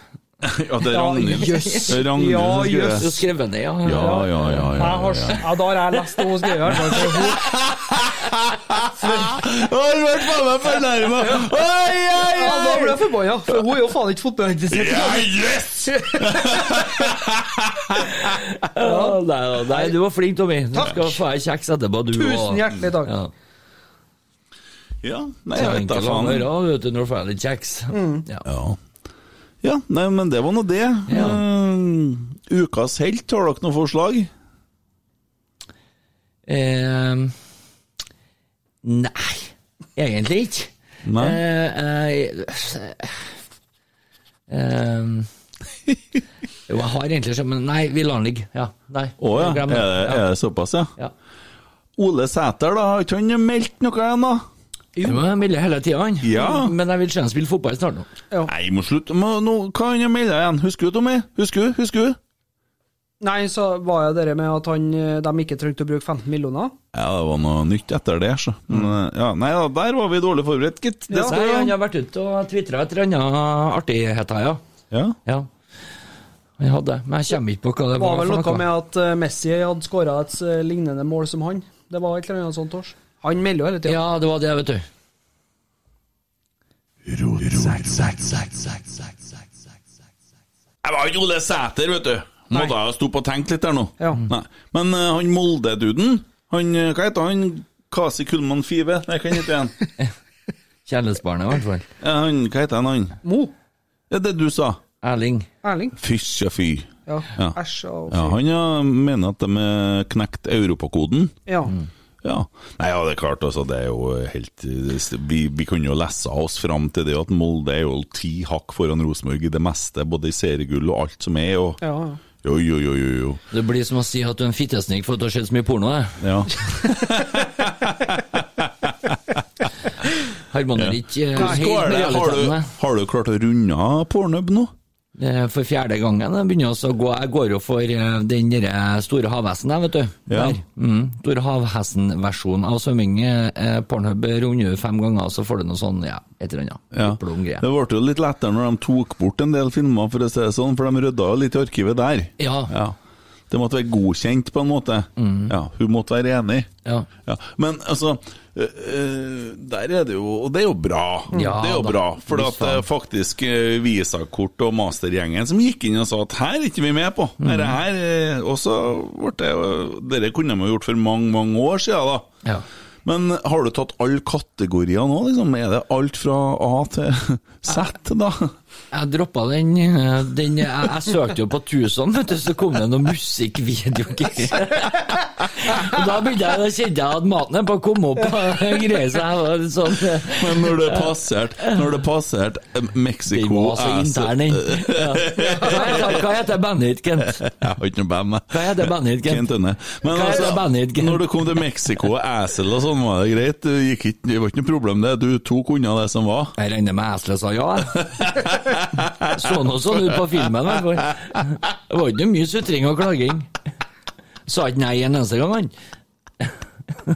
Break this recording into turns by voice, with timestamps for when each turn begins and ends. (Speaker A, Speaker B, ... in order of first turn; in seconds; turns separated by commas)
Speaker A: 0.4-3.1, Speaker B: 0.9-3.1, Speaker C: 1.4-4.9, Speaker A: 3.8-5.4, Speaker B: 3.9-4.2, Speaker B: 4.7-7.5, Speaker A: 7.0-12.8, Speaker B: 12.2-16.9, Speaker C: 12.3-12.7, Speaker A: 14.7-18.4, Speaker C: 18.3-23.3, Speaker B: 18.8-19.9, Speaker B: 20.7-21.2, Speaker B: 22.1-23.1, Speaker A: 25.0-26.5, Speaker C: 25.5-28.4, Speaker B: 27.9-28.2, Speaker A: 28.4-28.8, Speaker A: 29.6-34.3, Speaker C: 31.1-31.4, Speaker C: 36.5-37.4, Speaker C: 38.8-43.3, Speaker A: 41.0-41.4, Speaker C: 44.5-45.3, Speaker C: 46.7-50.2, Speaker A: 49.2-50.9, Speaker A: 52.0-54.5, Speaker B: 55.0-55.3, Speaker C: 55.0-58.1, Speaker A: 56.2-56.7, Speaker A: 58.5-62.2, Speaker B: 63.2-66.8, Speaker A: 66.9-71.6, Speaker B: 71.1-71.7, Speaker C: 71.2-74.6, Speaker A: 74.9-75.2, Speaker C: 76.6-78.7, Speaker B: 78.0-84.0, Speaker C: 83.8-84.8, Speaker A: 87.1-88.6, Speaker A: 90.8-99.8, Speaker B: 94.0-94.2, Speaker C: 100.9-101.9, Speaker A: 102.0-103.2, Speaker B: 103.2-103.5, Speaker A: 104.1-104.8, Speaker C: 105.0-105.5, Speaker B: 105.6-106.0, Speaker A: 106.0-107.6, Speaker B: 107.1-108.4, Speaker A: 108.1-111.3, Speaker B: 111.5-111.7, Speaker A: 112.2-121.8, Speaker B: 121.8-122.2, Speaker A: 122.4-123.4, Speaker C: 123.5-126.2, Speaker A: 126.2-129.2, Speaker C: 130.3-132.7, Speaker A: 130.8-134.7, Speaker C: 135.2-147.6, Speaker A: 140.3-140.6, Speaker A: 146.9-152.9, Speaker C: 152.4-152.7, Speaker A: 153.5-156.7, Speaker C: 155.2-155.5, Speaker A: 157.3-172.3, Speaker C: 161.3-162.8, Speaker C: 167.4-167.8, Speaker A: 173.1-178.5, Speaker C: 178.9-191.9, Speaker A: 190.3-196.1, Speaker C: 193.3-197.5, Speaker A: 197.4-206.5, Speaker C: 198.5-201.4, Speaker C: 206.6-208.4, Speaker A: 208.2-209.4, Speaker C: 209.2-213.5, Speaker C: 214.5-215.7